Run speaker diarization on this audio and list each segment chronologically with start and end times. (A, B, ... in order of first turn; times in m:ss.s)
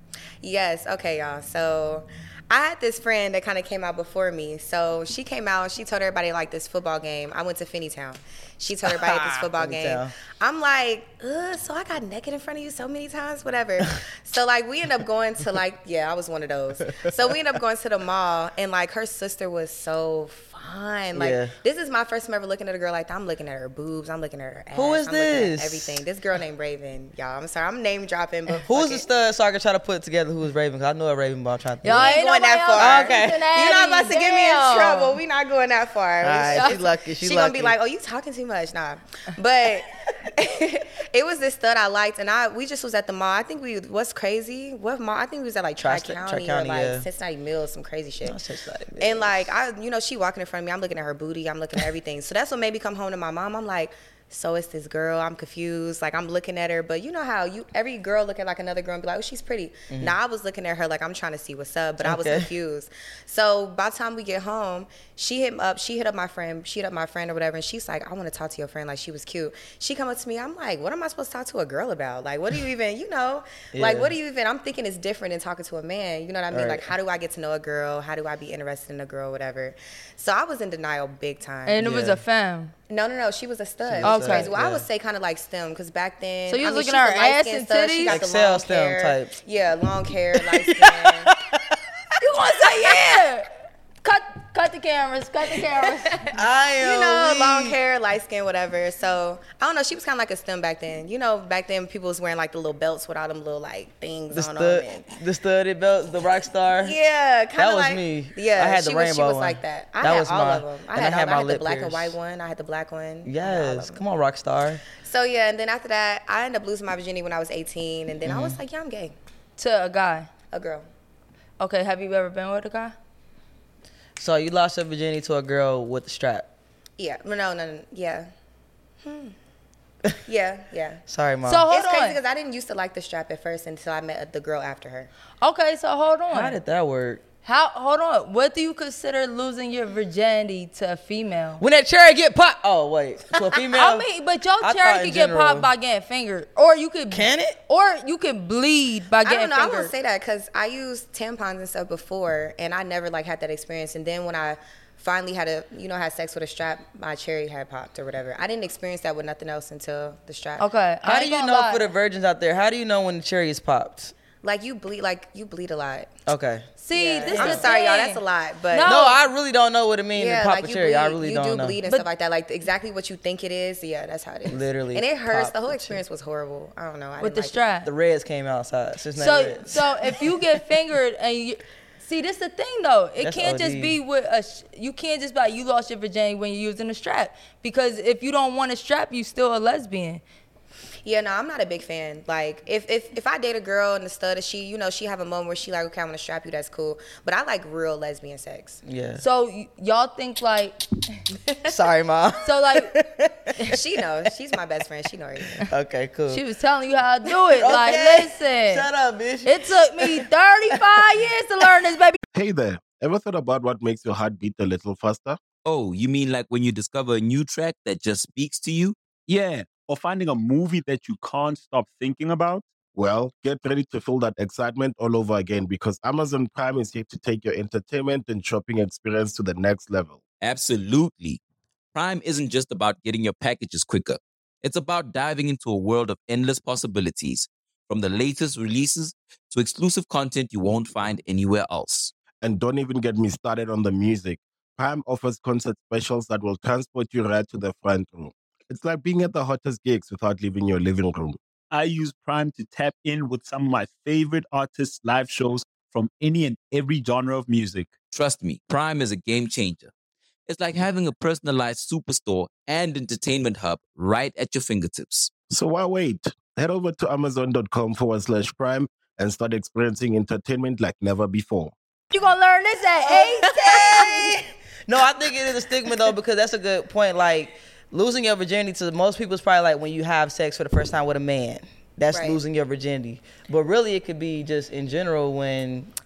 0:00.4-0:29.0 A
0:08.8-0:10.1 B
0:21.1-0:21.5 B
0:24.7-0:26.0 B
0:28.7-0:32.1 B
0:31.8-0:35.2 C
0:31.9-0:48.4 A
0:32.8-0:33.4 B
0:36.2-0:37.8 B
0:45.8-0:47.0 B
0:48.2-0:49.5 B
0:49.0-1:21.8 A
0:59.9-1:00.1 B
1:02.0-1:02.5 B
1:13.7-1:14.1 B
1:16.5-1:16.9 B
1:21.7-1:22.7 C
1:21.8-1:22.2 B
1:22.9-1:31.3 A
1:23.8-1:24.8 B
1:24.0-1:24.5 C
1:26.5-1:28.2 C
1:28.0-1:29.4 B
1:30.4-1:31.8 B
1:32.2-1:33.5 C
1:34.0-1:36.2 C
1:36.1-1:45.0 A
1:36.3-1:37.8 B
1:44.3-1:46.9 B
1:46.8-1:54.0 A
1:47.6-1:52.1 B
1:53.2-1:54.8 B
1:55.0-1:59.1 A
1:58.2-1:58.6 B
1:59.6-2:00.3 C
2:00.5-2:00.8 A
2:01.6-2:02.9 C
2:04.2-2:06.5 B
2:07.0-2:08.3 A
2:09.0-2:09.3 A
2:10.2-2:11.0 A
2:11.1-2:11.7 B
2:11.4-2:12.2 C
2:11.7-2:15.1 A
2:15.4-2:16.6 C
2:16.3-2:17.2 B
2:17.4-2:21.6 C
2:21.6-2:24.1 B
2:23.8-2:29.9 C
2:24.6-2:25.7 B
2:27.1-2:27.6 B
2:29.2-2:40.6 A
2:40.6-2:41.8 C
2:41.0-2:44.1 B
2:44.4-2:46.1 A
2:46.2-2:46.7 B
2:46.8-2:49.2 C
2:46.9-2:48.9 A
2:47.3-2:47.7 B
2:48.8-2:51.8 B
2:50.1-2:57.6 A
2:54.5-2:56.0 B
2:57.2-2:57.9 C
2:57.8-3:00.2 B
2:59.2-3:10.2 C
3:03.2-3:04.0 B
3:11.0-3:18.8 A
3:18.8-3:19.2 B
3:19.2-3:20.8 C
3:21.7-3:23.6 B
3:22.4-3:23.0 C
3:23.7-3:25.6 A
3:25.5-3:26.4 B
3:26.3-3:28.8 C
3:27.5-3:30.8 B
3:29.4-3:32.2 C
3:32.3-3:35.4 D
3:35.6-3:39.0 E
3:39.3-3:42.6 F
3:42.9-3:50.2 D
3:50.4-3:51.4 E
3:51.9-4:02.1 E
4:02.4-4:11.4 D
4:11.7-4:17.9 F
4:18.1-4:19.9 E
4:20.5-4:25.3 E
4:25.5-4:31.7 D
4:32.1-4:34.2 C
4:33.4-4:45.9 B
4:33.6-4:34.1 A
4:42.1-4:42.4 A